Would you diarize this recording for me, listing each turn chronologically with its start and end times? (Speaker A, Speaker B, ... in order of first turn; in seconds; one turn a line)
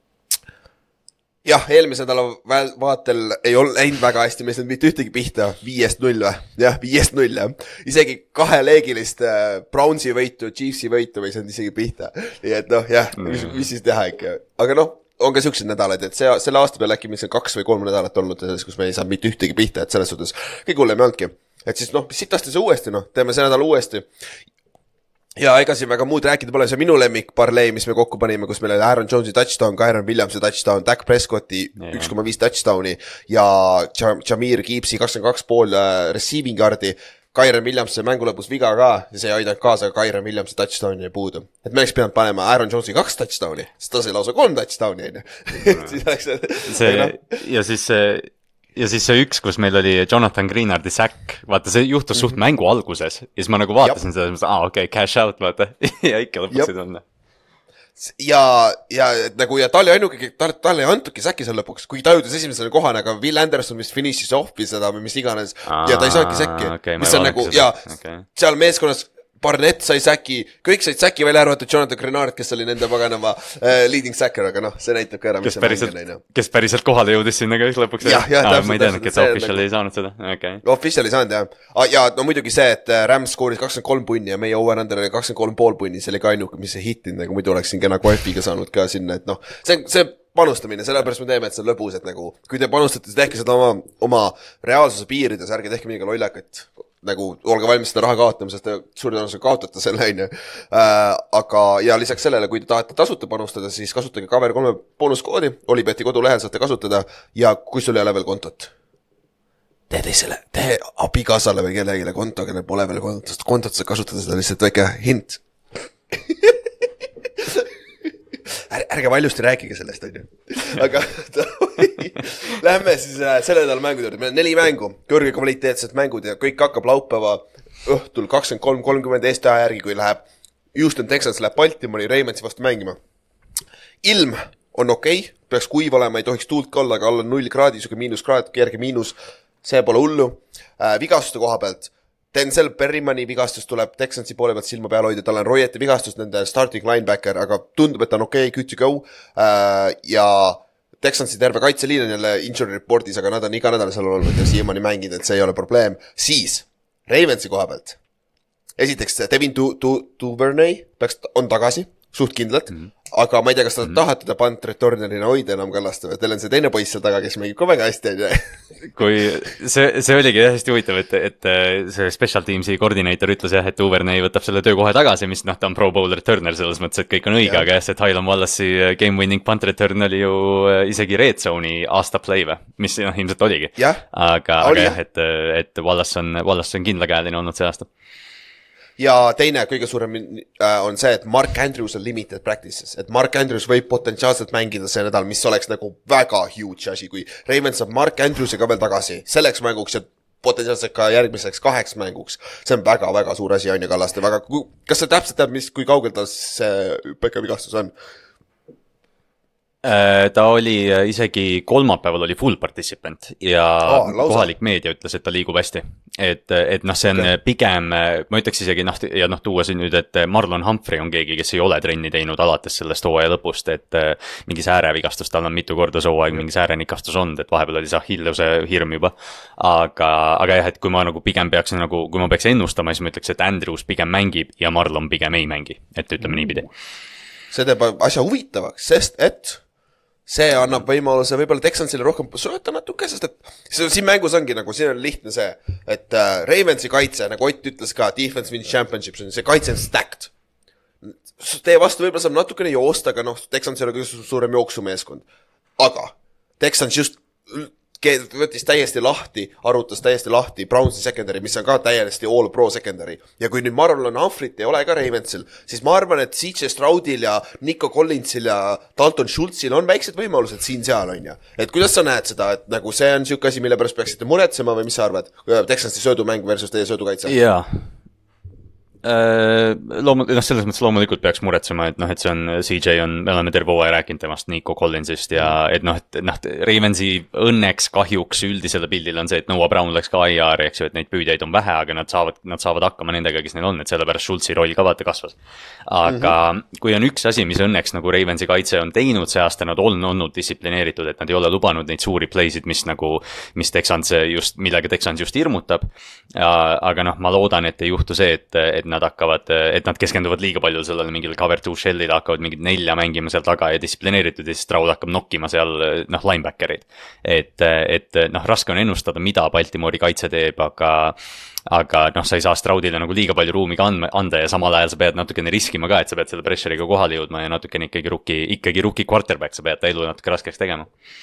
Speaker A: 1.4-24.1
Speaker B: 13.2-13.6
Speaker A: 25.4-47.2
Speaker B: 31.8-32.1
Speaker B: 45.6-46.0
Speaker B: 46.7-57.0
Speaker A: 52.1-52.4
Speaker A: 58.0-67.8
Speaker B: 65.7-68.2
Speaker A: 68.4-76.2
Speaker B: 75.4-80.6
Speaker A: 78.0-79.7
Speaker A: 80.6-108.7
Speaker A: 109.9-115.4
Speaker A: 116.1-116.7
Speaker A: 117.4-117.7
Speaker A: 118.5-133.0
Speaker A: 134.0-158.0
Speaker A: 158.8-168.5
Speaker B: 168.9-187.9
Speaker A: 183.8-184.0
Speaker A: 184.6-185.0
Speaker A: 189.0-207.9
Speaker B: 209.8-236.7
Speaker A: 213.8-214.5
Speaker A: 237.5-239.6
Speaker A: 240.3-250.3
Speaker A: 251.0-255.2
Speaker A: 255.8-277.4
Speaker B: 277.3-277.9
Speaker B: 279.0-295.4
Speaker B: 295.9-321.2
Speaker A: 296.1-296.3
Speaker B: 321.7-330.9